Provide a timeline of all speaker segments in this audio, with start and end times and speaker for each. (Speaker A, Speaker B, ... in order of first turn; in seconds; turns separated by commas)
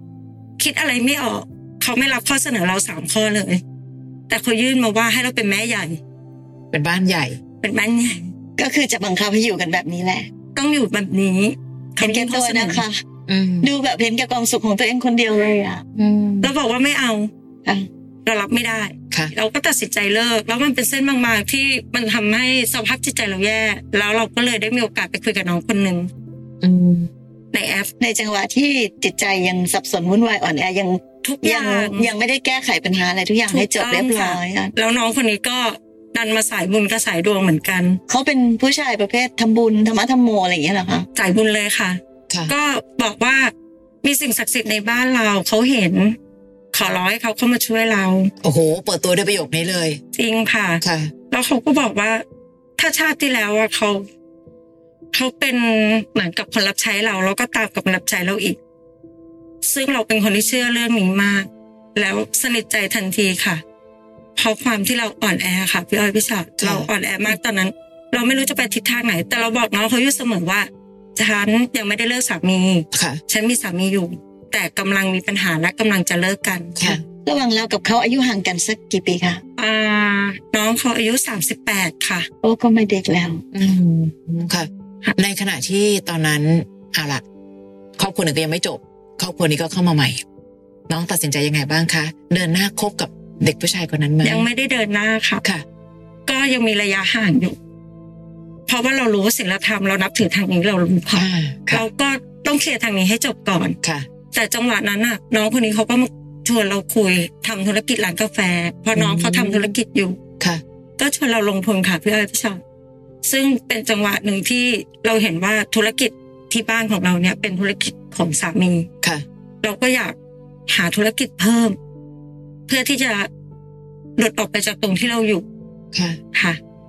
Speaker A: 0.6-3.6, Speaker A: 4.3-6.0, Speaker B: 6.7-7.4, Speaker A: 7.6-8.3, Speaker C: 8.6-10.3, Speaker A: 10.6-12.8, Speaker C: 12.0-13.0, Speaker B: 13.3-13.7, Speaker C: 13.6-15.8, Speaker B: 15.9-16.5, Speaker A: 16.4-17.3, Speaker A: 18.2-26.1, Speaker B: 26.6-27.1, Speaker A: 27.5-27.9, Speaker C: 28.0-34.7, Speaker A: 31.2-32.1, Speaker A: 33.5-38.0, Speaker C: 38.1-41.1, Speaker A: 41.1-46.2, Speaker B: 42.3-42.5, Speaker A: 46.7-48.3, Speaker B: 48.4-50.0, Speaker A: 50.1-52.2, Speaker B: 50.8-51.1, Speaker A: 52.8-54.0, Speaker A: 55.1-58.6, Speaker A: 59.6-63.6, Speaker A: 64.4-76.8, Speaker B: 66.6-67.4, Speaker B: 72.9-73.2, Speaker B: 76.8-77.0, Speaker C: 76.9-79.4, Speaker A: 79.6-82.3, Speaker C: 82.4-83.8, Speaker B: 83.5-87.2, Speaker B: 88.0-90.2, Speaker B: 90.9-94.5, Speaker A: 94.2-95.4, Speaker A: 96.3-97.6, Speaker A: 98.7-103.8, Speaker B: 101.1-101.9, Speaker A: 104.3-110.2, Speaker B: 108.9-109.8, Speaker A: 111.0-112.6, Speaker A: 113.2-118.9, Speaker A: 119.6-120.2, Speaker A: 120.7-121.8, Speaker A: 122.7-123.3, Speaker A: 124.2-125.5, Speaker B: 125.9-126.2, Speaker A: 126.3-126.6